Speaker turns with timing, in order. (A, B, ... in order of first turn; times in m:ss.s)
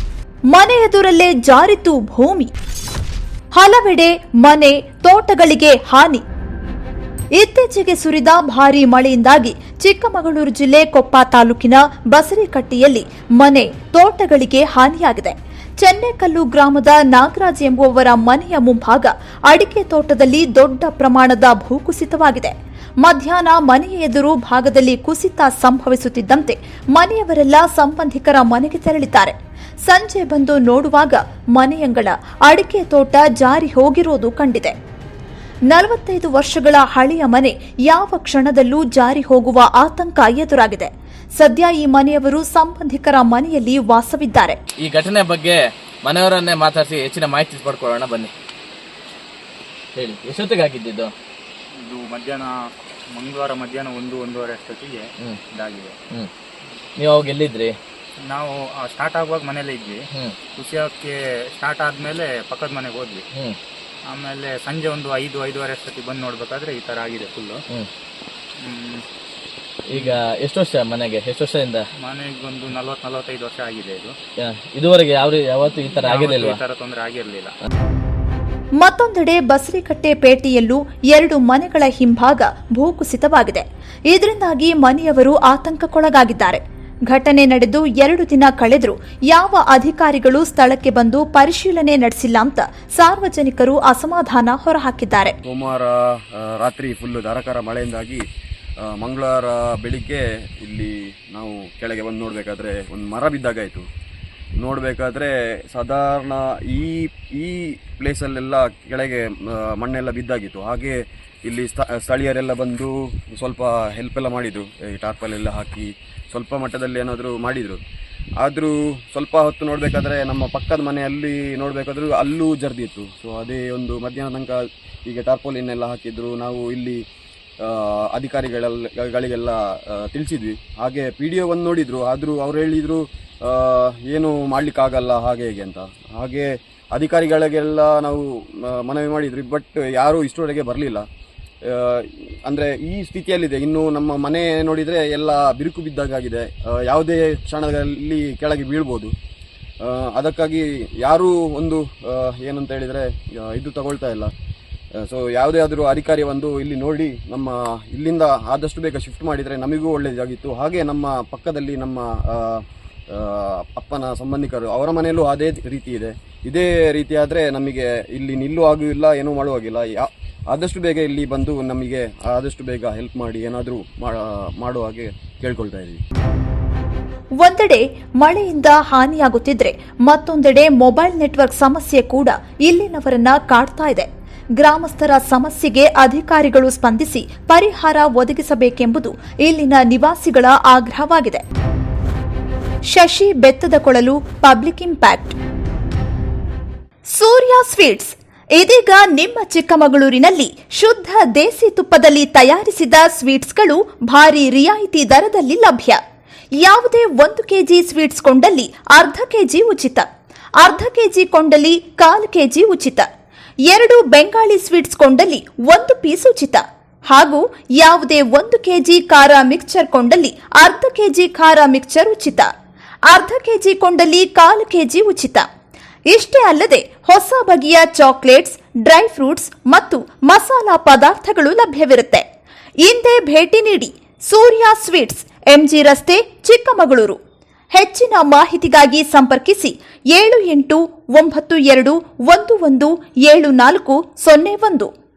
0:00.5-0:02.5 A
0:03.6-0:06.2 A
0:07.3-0:29.4 A
0:29.9-0:34.8 A
0:35.7-0:44.6 A
0:44.8-0:48.3 B
0:50.0-0:51.1 B
0:51.8-0:52.6 C
0:53.1-0:56.0 C
0:57.0-0:57.8 B
0:58.3-1:00.0 C
1:00.6-1:03.2 C
1:04.1-1:07.6 C
1:08.6-1:09.0 C
1:09.9-1:11.8 B
1:12.0-1:14.2 C
1:14.4-1:16.6 B
1:16.0-1:17.6 C
1:18.8-1:35.4 A
1:35.4-1:38.2 D
1:38.9-1:43.8 D
1:44.6-1:57.8 D
1:58.4-2:07.0 D
2:07.6-2:21.0 D
2:21.7-2:29.1 D
2:29.8-2:34.3 D
2:35.0-2:56.0 D
2:57.4-3:04.1 A
3:04.6-3:11.4 A
3:12.9-3:15.4 A
3:17.1-3:26.0 A
3:26.6-3:30.1 A
3:30.6-3:33.1 A
3:33.7-3:42.5 A
3:43.1-3:45.5 A
3:46.1-3:52.2 A
3:52.8-3:57.2 A
3:57.7-4:04.9 A